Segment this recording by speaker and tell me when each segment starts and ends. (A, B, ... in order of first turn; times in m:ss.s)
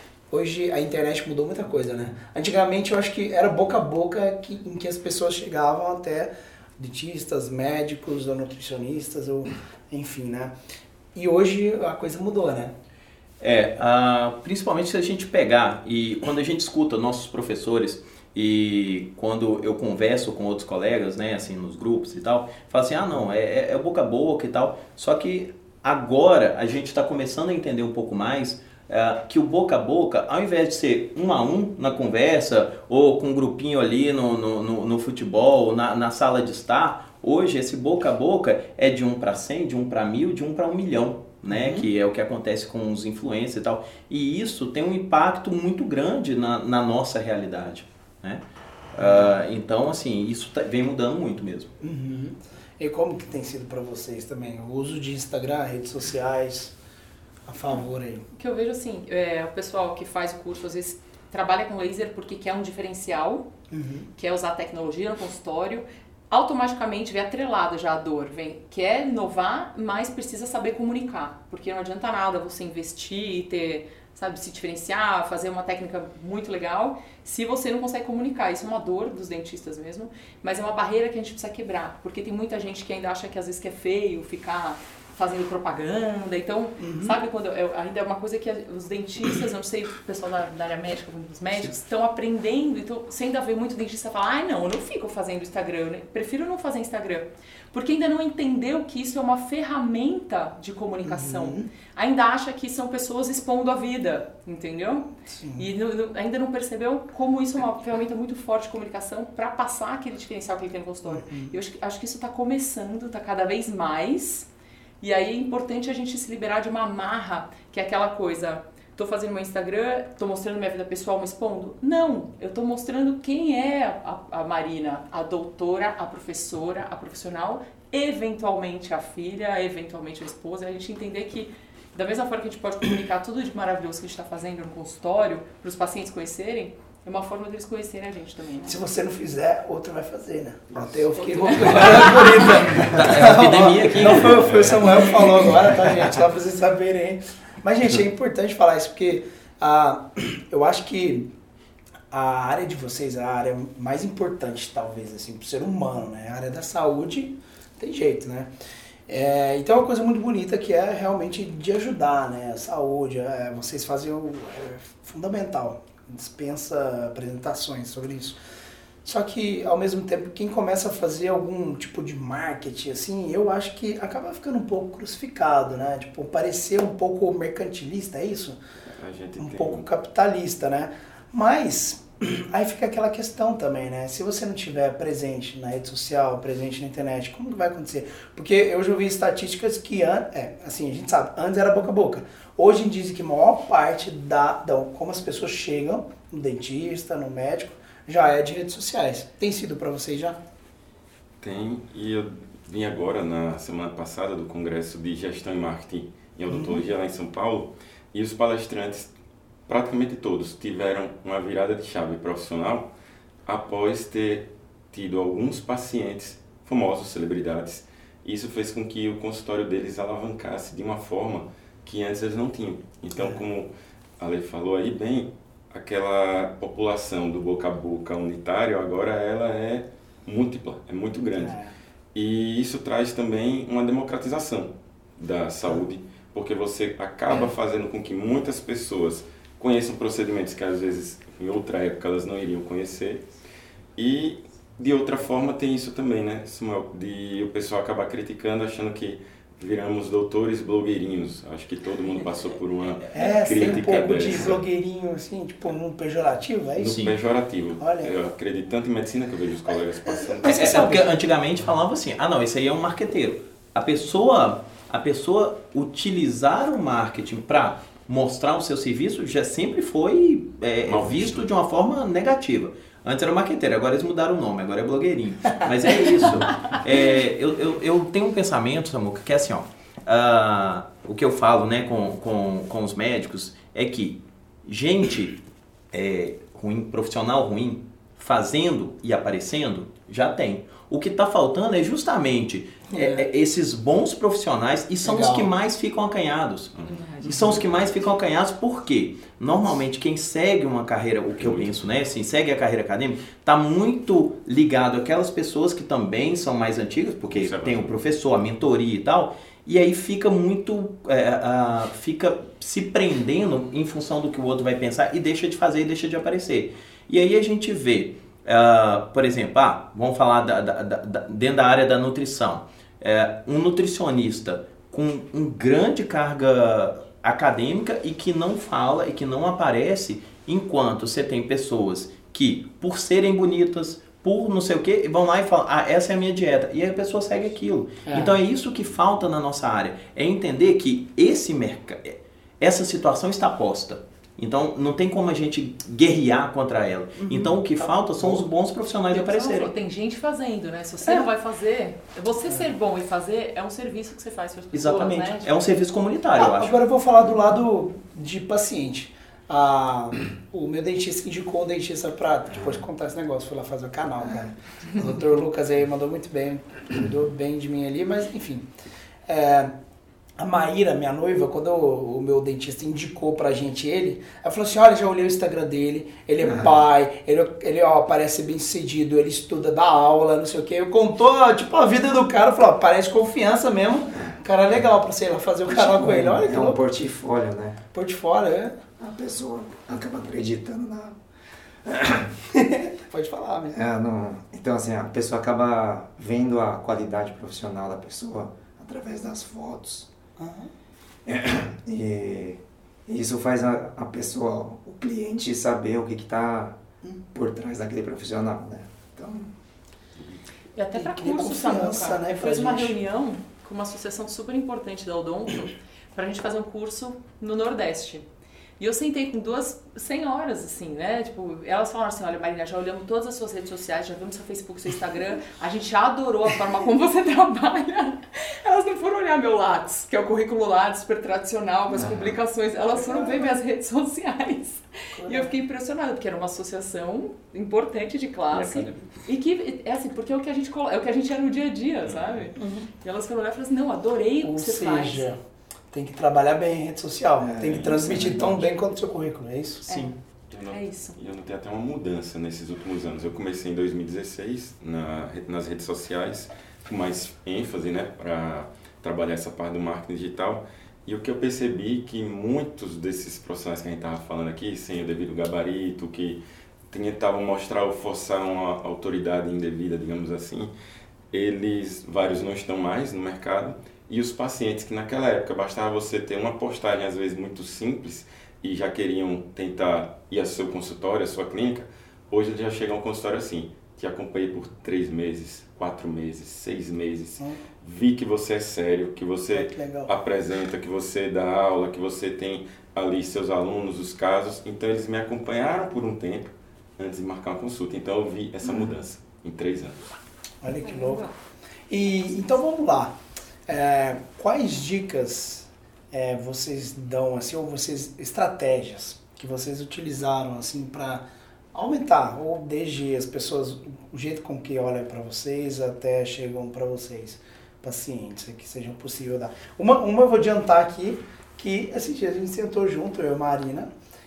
0:00.3-0:10.5 A
0:11.1-0:12.7 A
0:13.4-0:48.4 B
0:41.5-0:41.9 A
0:48.9-0:51.7 B
0:49.0-0:49.3 A
0:51.8-0:56.7 A
0:57.5-0:58.2 A
0:58.3-1:03.5 C
1:03.7-1:04.1 A
1:04.2-1:54.5 C
1:26.8-1:27.2 A
1:41.0-1:41.7 A
1:45.2-1:45.6 A
1:51.1-1:51.5 A
1:55.0-2:18.8 C
2:18.6-2:31.3 A
2:21.2-2:22.5 C
2:21.7-2:25.4 B
2:32.1-2:38.5 A
2:39.1-2:48.4 A
2:49.0-2:58.6 A
2:58.8-2:59.8 D
2:59.4-3:20.4 A
3:21.4-3:29.1 D
3:26.5-3:26.8 A
3:29.7-3:32.9 D
3:33.4-3:51.6 D
3:51.4-3:51.7 A
3:52.1-4:03.2 D
4:04.0-4:14.6 D
4:13.1-4:17.0 A
4:16.8-4:21.1 D
4:16.8-4:17.2 B
4:17.8-4:18.1 A
4:20.0-4:21.1 A
4:20.4-4:45.4 B
4:30.8-4:31.4 D
4:45.9-4:56.7 B
4:52.9-4:53.3 A
4:55.0-4:55.5 A
4:56.7-4:58.1 D
4:56.8-4:57.6 C
4:57.2-5:49.7 B
5:01.4-5:01.8 D
5:07.2-5:07.9 D
5:38.0-5:38.3 A
5:47.2-5:48.4 A
5:49.1-5:55.6 C
5:54.7-5:56.8 B
5:56.4-6:08.7 A
6:09.3-6:09.7 A
6:10.4-6:26.8 A
6:25.7-6:27.8 E
6:27.9-6:28.8 A
6:29.0-6:31.2 E
6:31.8-6:32.3 E
6:32.5-6:33.8 A
6:33.7-6:40.1 E
6:40.4-6:40.7 A
6:41.2-6:46.8 E
6:47.3-6:49.5 E
6:50.8-6:58.2 C
6:50.9-6:53.0 A
6:58.8-7:25.2 C
7:11.9-7:12.4 E
7:12.8-7:13.6 A
7:15.2-7:15.5 A
7:18.5-7:19.1 B
7:22.0-7:22.5 D
7:22.6-7:22.9 A
7:24.4-7:25.4 A
7:25.9-7:29.8 A
7:27.4-7:28.6 E
7:29.8-7:30.1 B
7:29.8-7:30.2 C
7:30.5-7:50.7 D
7:30.7-7:31.2 C
7:51.3-8:20.0 D
8:09.5-8:10.1 A
8:20.6-8:21.2 A
8:20.8-8:21.3 C
8:21.9-8:23.1 A
8:23.7-8:43.9 A